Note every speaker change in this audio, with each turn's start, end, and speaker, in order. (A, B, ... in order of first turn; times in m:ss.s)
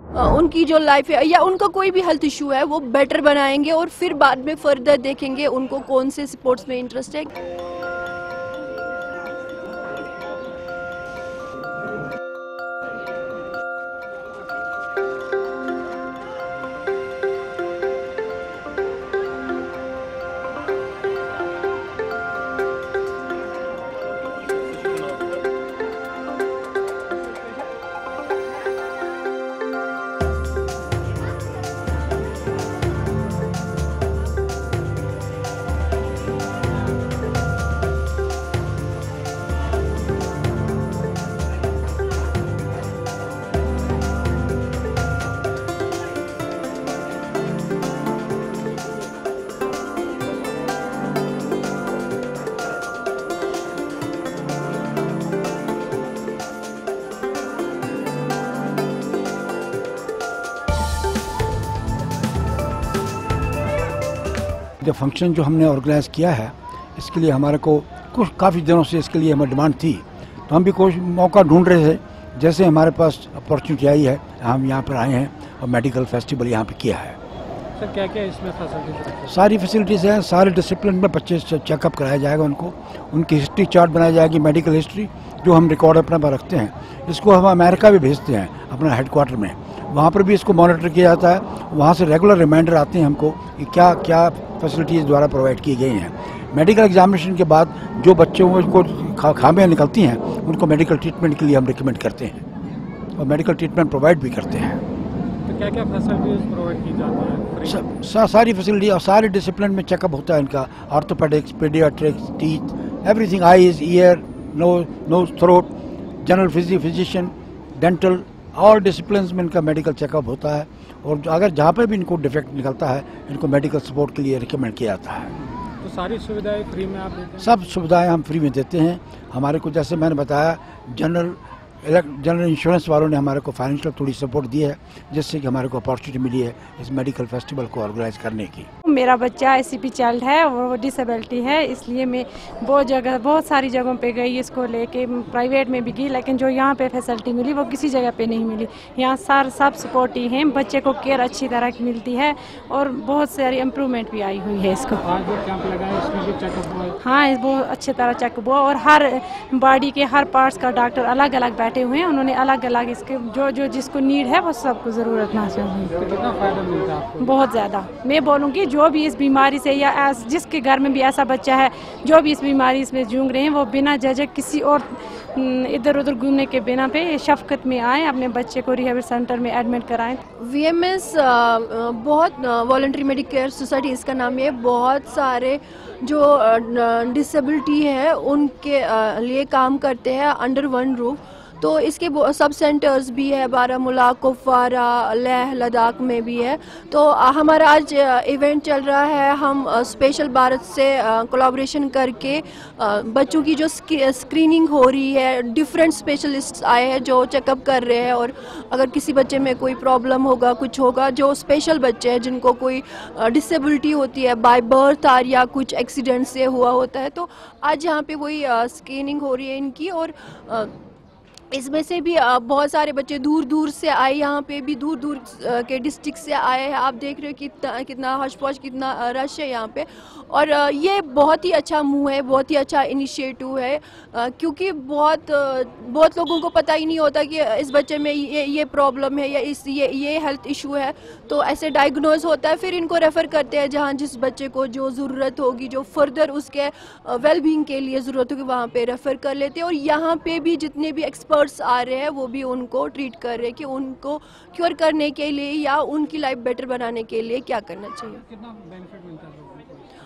0:00.1-0:07.3 A
1:04.8-1:17.2 B
1:17.8-1:19.3 C
1:19.3-1:42.4 B
1:43.2-1:44.8 B
1:45.4-1:47.8 C
1:47.6-1:55.7 B
1:56.2-2:05.3 B
2:05.8-2:07.5 C
2:07.4-2:18.7 B
2:18.8-2:35.0 D
2:35.0-2:37.0 C
2:37.0-2:45.9 D
2:45.9-2:47.3 C
2:47.2-3:00.2 D
3:00.4-3:40.7 A
3:41.5-4:18.2 A
4:18.3-4:19.8 C